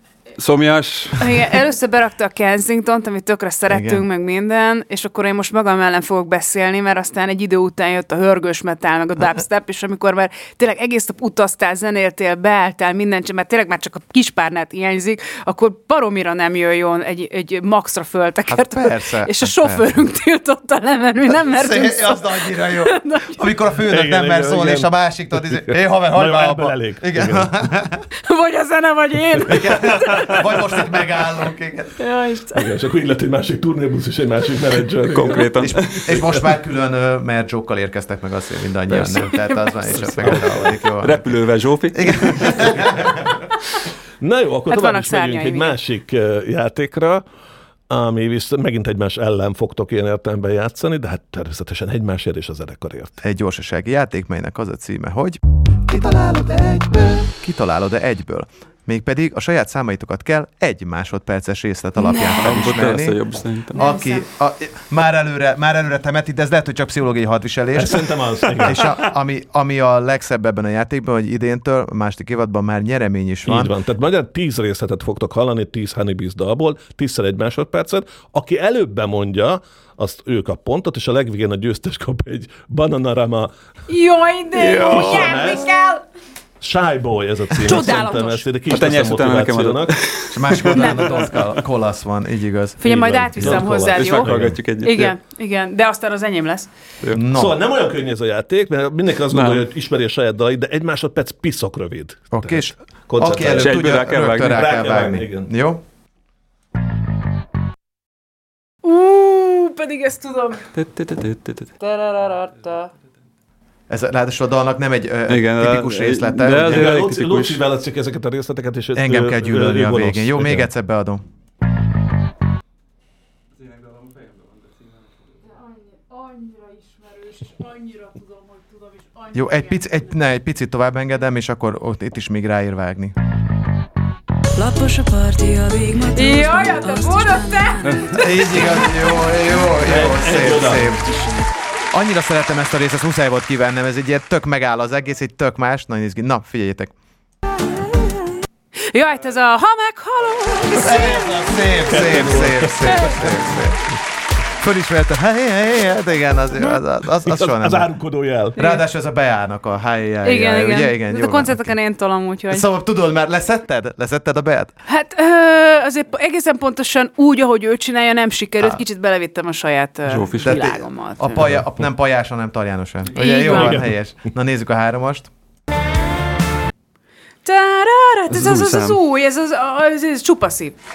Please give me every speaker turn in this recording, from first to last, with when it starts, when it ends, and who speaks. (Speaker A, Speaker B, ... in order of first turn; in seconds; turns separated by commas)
Speaker A: 0.4-1.4, Speaker B: 1.2-23.4, Speaker C: 3.7-4.0, Speaker C: 18.5-19.9, Speaker C: 21.3-28.0, Speaker D: 23.9-27.7, Speaker B: 28.2-30.4, Speaker D: 29.4-30.4, Speaker C: 29.4-32.0, Speaker B: 32.0-32.7, Speaker D: 32.5-35.5, Speaker A: 35.1-36.1, Speaker C: 35.6-41.3, Speaker D: 36.1-36.3, Speaker A: 39.0-39.3, Speaker A: 40.1-42.9, Speaker D: 40.2-40.6, Speaker C: 41.9-43.1, Speaker D: 44.2-47.2, Speaker B: 44.7-45.8, Speaker D: 47.9-53.1, Speaker C: 53.2-63.2, Speaker B: 62.0-62.4, Speaker A: 62.3-63.8, Speaker C: 63.7-73.7, Speaker B: 63.7-64.2, Speaker D: 67.8-69.0, Speaker D: 73.4-83.5, Speaker B: 83.9-86.0, Speaker A: 84.5-85.3, Speaker D: 84.8-85.7, Speaker D: 86.6-89.9, Speaker B: 87.6-88.5, Speaker A: 88.7-91.5, Speaker C: 90.3-93.6, Speaker B: 90.7-91.3, Speaker B: 92.8-96.7, Speaker D: 93.3-94.6, Speaker A: 93.8-95.1, Speaker C: 97.1-97.6, Speaker D: 97.3-105.5, Speaker A: 99.3-99.7, Speaker C: 102.3-105.8, Speaker A: 103.4-104.8, Speaker B: 108.8-110.7, Speaker A: 110.7-111.7, Speaker B: 111.8-112.9, Speaker C: 113.9-116.9, Speaker A: 115.3-117.6, Speaker D: 116.6-120.7, Speaker C: 118.9-121.2, Speaker B: 126.1-128.2, Speaker C: 129.3-133.1, Speaker E: 134.5-138.3, Speaker B: 136.1-138.5, Speaker C: 138.1-141.0, Speaker D: 139.7-140.9, Speaker C: 141.9-146.9, Speaker B: 148.9-151.3, Speaker C: 150.7-153.8, Speaker D: 151.8-153.4, Speaker B: 152.8-153.2, Speaker C: 154.6-157.9, Speaker D: 157.2-158.7, Speaker C: 158.5-161.8, Speaker B: 158.6-158.8, Speaker B: 160.2-162.7, Speaker C: 162.5-164.7, Speaker B: 164.9-171.4, Speaker A: 170.1-170.6, Speaker C: 170.4-175.3, Speaker B: 173.1-173.8, Speaker D: 173.4-173.9, Speaker B: 177.4-180.8, Speaker A: 178.3-179.0